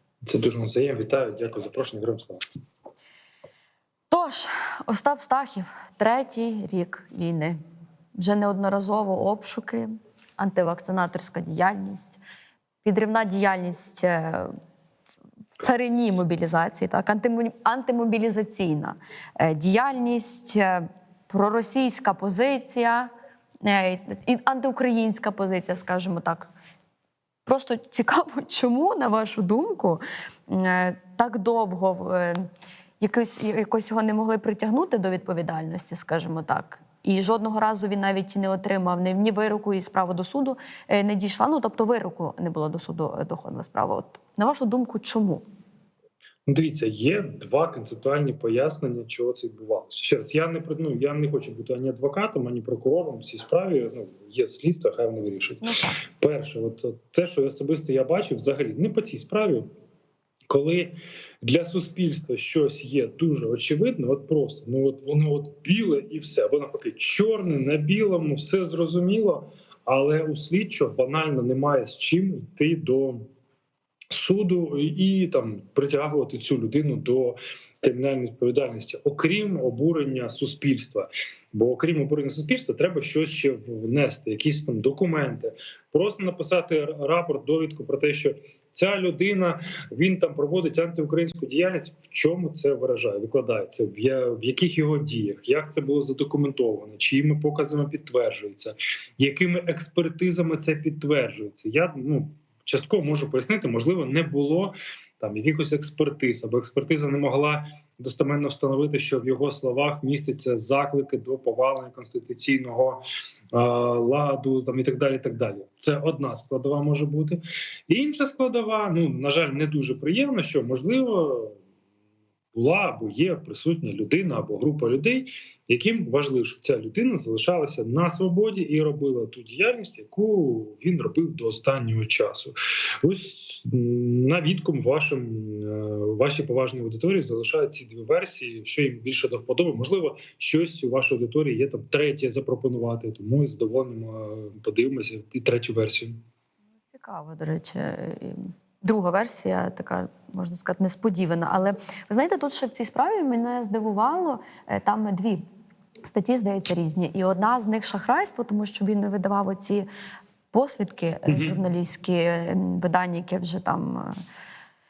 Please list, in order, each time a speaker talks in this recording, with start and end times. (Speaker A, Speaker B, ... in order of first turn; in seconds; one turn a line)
Speaker A: 0.2-2.4
Speaker B: 4.1-7.6
Speaker B: 8.1-12.2
Speaker B: 12.8-14.5
Speaker B: 15.6-23.1
Speaker B: 23.6-26.5
Speaker B: 27.4-32.5
Speaker B: 33.0-45.4
Speaker A: 46.5-59.7
Speaker B: 55.6-56.0
Speaker A: 60.5-73.3
Speaker A: 74.1-113.0
Speaker A: 113.5-121.6
Speaker A: 122.5-146.2
Speaker B: 146.9-155.4
Speaker B: 156.0-159.9
Speaker B: 160.5-164.2
Speaker A: 161.3-161.6